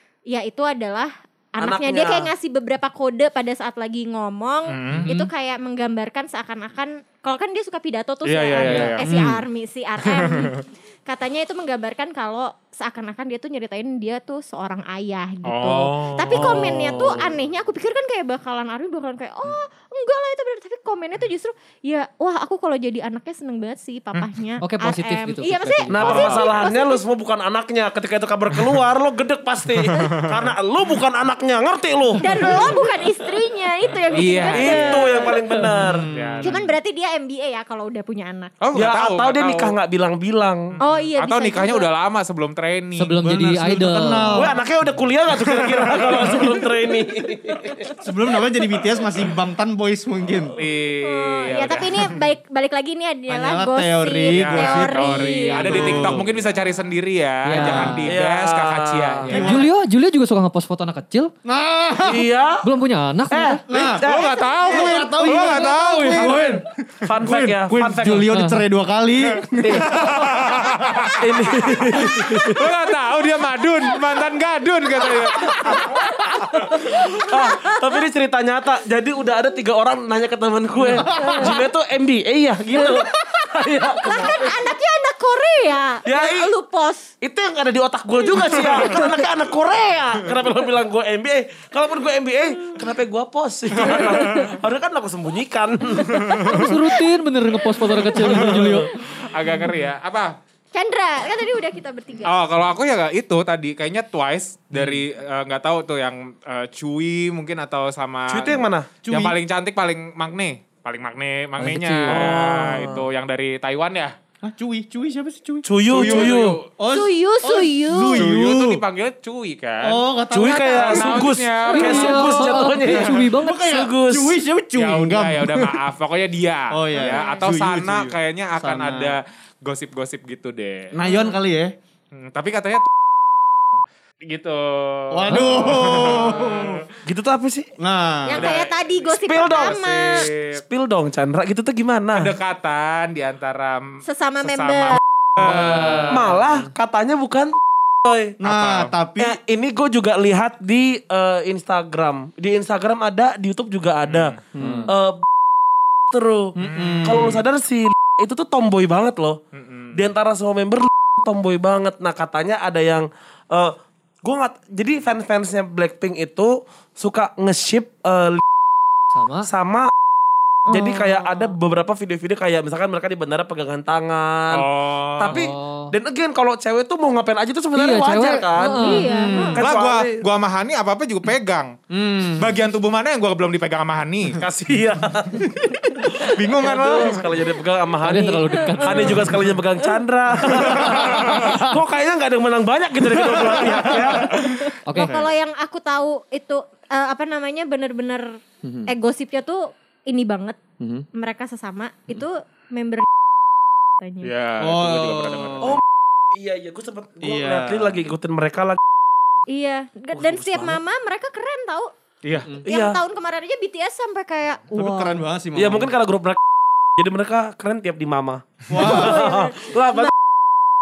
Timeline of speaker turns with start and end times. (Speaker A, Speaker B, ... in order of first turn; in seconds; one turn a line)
Speaker A: 0.3-27.0
Speaker B: 1.6-2.3
Speaker C: 4.7-5.1
Speaker D: 5.0-5.3
Speaker C: 8.2-9.1
Speaker D: 8.6-9.0
Speaker E: 9.0-9.4
Speaker C: 10.2-10.5
Speaker C: 15.5-17.2
Speaker B: 16.3-17.3
Speaker D: 24.6-26.2
Speaker B: 25.9-32.6
Speaker C: 25.9-26.7
Speaker C: 29.9-30.5
Speaker A: 32.2-35.4
Speaker C: 34.1-35.3
Speaker B: 34.5-36.1
Speaker E: 35.7-36.6
Speaker C: 36.1-36.6
Speaker A: 36.4-38.5
Speaker C: 38.6-39.8
Speaker B: 38.7-40.7
Speaker C: 40.8-43.2
Speaker A: 40.8-41.9
Speaker D: 43.0-44.5
Speaker E: 43.2-44.6
Speaker B: 44.3-47.9
Speaker C: 45.6-46.5
Speaker E: 45.7-46.6
Speaker E: 48.0-50.6
Speaker C: 50.6-52.1
Speaker A: 51.0-56.2
Speaker E: 53.3-56.5
Speaker C: 54.3-59.6
Speaker D: 57.5-58.1
Speaker E: 57.5-58.1
Speaker B: 58.0-59.5
Speaker D: 59.3-61.3
Speaker E: 59.3-59.7
Speaker E: 61.5-62.3
Speaker B: 62.0-62.7
Speaker D: 62.6-63.6
Speaker B: 63.3-68.3
Speaker E: 63.7-70.2
Speaker C: 63.9-66.6
Speaker D: 68.2-68.6
Speaker B: 69.6-70.4
Speaker C: 69.9-76.0
Speaker B: 71.1-72.6
Speaker B: 75.0-84.7
Speaker A: 75.8-76.3
Speaker A: 77.1-77.8
Speaker A: 81.1-81.6
Speaker E: 81.1-81.6
Speaker A: 82.7-87.1
Speaker B: 86.1-86.5
Speaker B: 87.2-96.6
Speaker A: 88.3-89.2
Speaker C: 93.8-94.5
Speaker A: 93.8-94.6
Speaker A: 96.1-96.6
Speaker C: 96.1-96.6
Speaker D: 96.5-98.9
Speaker B: 98.2-98.8
Speaker C: 99.0-100.3
Speaker A: 100.7-102.3
Speaker C: 102.2-114.1
Speaker B: 108.3-108.9
Speaker E: 109.0-109.4
Speaker D: 111.6-112.3
Speaker B: 112.1-113.0
Speaker E: 114.4-118.8
Speaker B: 115.7-116.6
Speaker C: 115.9-116.7
Speaker A: 116.9-118.2
Speaker C: 118.1-120.0
Speaker E: 119.8-121.4
Speaker B: 120.3-124.3
Speaker C: 120.5-123.1
Speaker D: 121.7-123.7
Speaker E: 122.1-122.4
Speaker E: 123.4-125.8
Speaker C: 124.8-130.9
Speaker E: 126.7-129.2
Speaker A: 127.0-127.4
Speaker E: 130.9-131.7
Speaker C: 132.1-132.9
Speaker C: 133.8-136.9
Speaker E: 135.1-136.8
Speaker B: 137.1-137.7
Speaker E: 137.8-138.6
Speaker A: 138.3-140.3
Speaker C: 138.4-139.1
Speaker B: 139.1-142.3
Speaker C: 139.7-140.6
Speaker C: 142.2-146.4
Speaker A: 144.0-145.0
Speaker B: 146.1-148.4
Speaker E: 148.4-149.4
Speaker C: 148.4-148.9
Speaker B: 149.2-155.3
Speaker C: 154.1-154.3
Speaker E: 154.6-154.9
Speaker B: 156.1-159.4
Speaker E: 156.6-157.4
Speaker C: 156.8-157.4
Speaker C: 159.6-160.0
Speaker B: 159.9-168.4
Speaker D: 169.1-169.5
Speaker B: 169.4-169.9
Speaker A: 170.7-171.5
Speaker B: 170.7-174.7
Speaker C: 174.5-175.3
Speaker B: 175.2-180.2
Speaker D: 175.3-175.9
Speaker D: 177.7-179.3
Speaker A: 178.8-179.6
Speaker E: 179.2-179.6
Speaker C: 179.6-184.4
Speaker E: 181.9-182.5
Speaker B: 184.4-185.5
Speaker E: 185.4-186.1
Speaker B: 186.2-194.4
Speaker C: 186.3-187.3
Speaker D: 188.0-189.4
Speaker A: 188.5-189.3
Speaker C: 190.5-191.6
Speaker E: 190.5-191.7
Speaker E: 193.1-194.3
Speaker C: 194.3-194.6
Speaker A: 194.3-200.6
Speaker D: 194.9-195.1
Speaker E: 198.6-198.9
Speaker E: 200.8-201.1
Speaker A: 201.1-203.1
Speaker A: 204.0-204.3
Speaker C: 204.2-205.8
Speaker E: 204.6-205.8
Speaker B: 205.6-208.8
Speaker E: 207.2-208.1
Speaker A: 209.5-211.9
Speaker B: 210.1-210.8
Speaker C: 212.2-212.5
Speaker B: 212.6-213.0
Speaker A: 212.7-215.2
Speaker E: 214.7-215.9
Speaker B: 215.6-216.4
Speaker B: 217.0-220.1
Speaker E: 218.7-219.5
Speaker A: 218.8-219.6